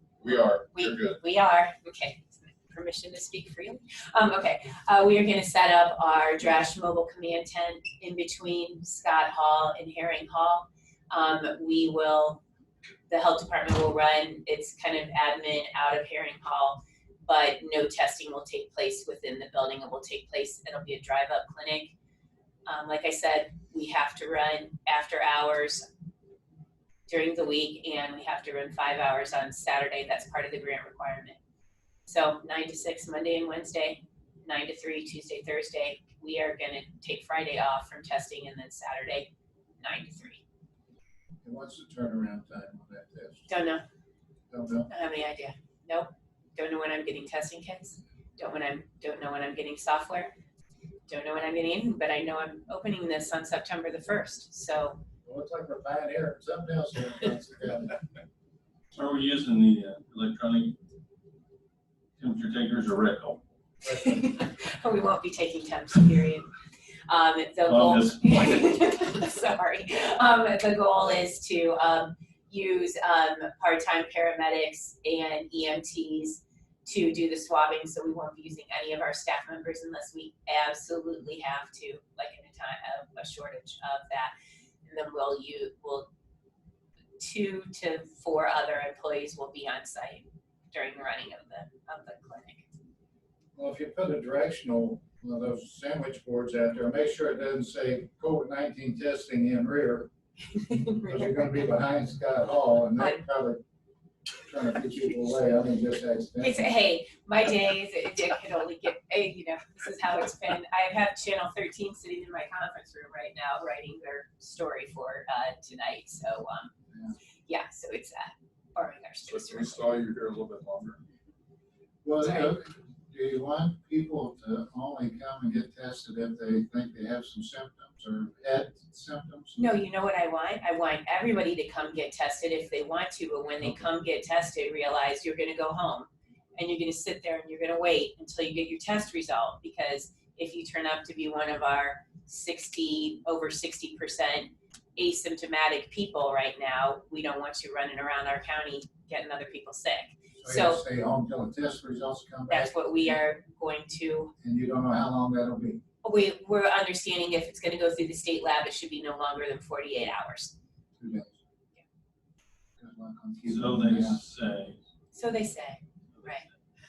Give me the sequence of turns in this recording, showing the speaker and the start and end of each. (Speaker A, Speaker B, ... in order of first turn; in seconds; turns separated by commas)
Speaker A: 0.2-1.2, Speaker B: 0.7-12.4, Speaker B: 13.1-21.9, Speaker B: 22.6-25.9, Speaker B: 27.1-31.4, Speaker B: 32.0-40.4, Speaker C: 41.4-43.5, Speaker B: 43.5-43.8, Speaker C: 44.5-44.9, Speaker B: 44.9-50.3, Speaker B: 51.1-55.0, Speaker C: 55.2-58.0, Speaker D: 58.9-60.8, Speaker D: 62.2-63.4, Speaker C: 63.8-64.2, Speaker B: 63.8-66.5, Speaker B: 67.1-84.3, Speaker D: 67.7-68.3, Speaker B: 84.8-86.1, Speaker B: 87.2-92.7, Speaker C: 93.5-100.1, Speaker B: 100.5-101.3, Speaker C: 101.0-103.6, Speaker C: 104.4-106.7, Speaker B: 106.4-116.7, Speaker B: 117.5-120.0, Speaker A: 119.3-121.0, Speaker C: 122.0-129.6, Speaker B: 122.2-122.5, Speaker B: 129.5-150.8, Speaker C: 150.4-153.2, Speaker B: 152.5-154.3, Speaker C: 154.4-155.8, Speaker B: 156.0-160.5, Speaker C: 161.0-161.4, Speaker C: 162.8-164.2, Speaker D: 163.4-164.8, Speaker B: 165.1-166.4